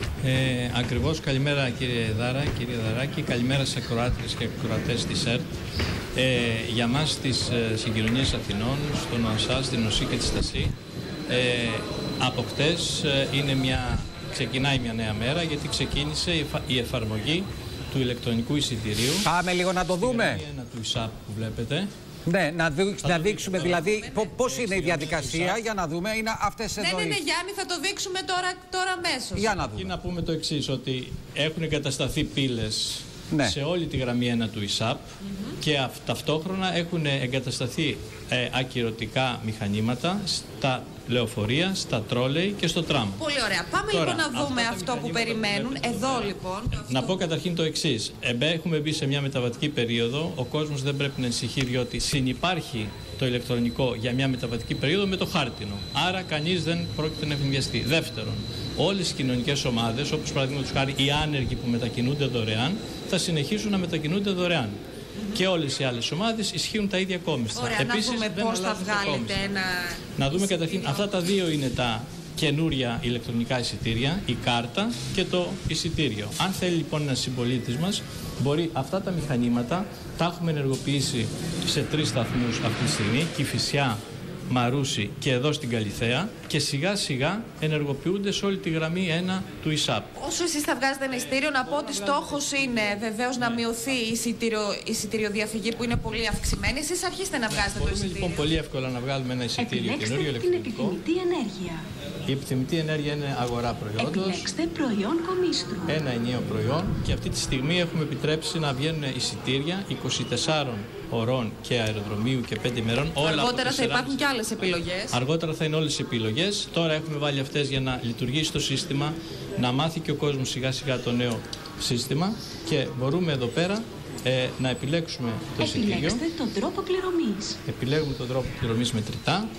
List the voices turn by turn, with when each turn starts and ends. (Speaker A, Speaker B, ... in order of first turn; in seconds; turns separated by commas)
Speaker A: 0.2-5.5, Speaker A: 6.1-10.7, Speaker A: 11.3-19.3, Speaker B: 19.2-20.4, Speaker A: 20.0-21.9, Speaker B: 22.2-27.2, Speaker A: 23.0-25.6, Speaker C: 23.6-24.3, Speaker C: 26.8-29.6, Speaker B: 29.4-29.9, Speaker A: 29.6-35.1, Speaker B: 33.3-33.5, Speaker C: 35.2-35.5, Speaker A: 35.6-43.2, Speaker C: 43.2-47.2, Speaker A: 43.9-64.8, Speaker A: 65.3-69.5, Speaker C: 67.5-71.5, Speaker A: 70.2-90.1, Speaker C: 90.2-98.5, Speaker A: 91.4-93.6, Speaker A: 97.5-101.0, Speaker D: 99.6-101.8, Speaker A: 102.3-104.5, Speaker D: 104.0-105.9, Speaker A: 105.8-114.2, Speaker C: 113.2-115.2, Speaker A: 115.1-126.2, Speaker D: 125.6-127.5, Speaker A: 127.7-129.5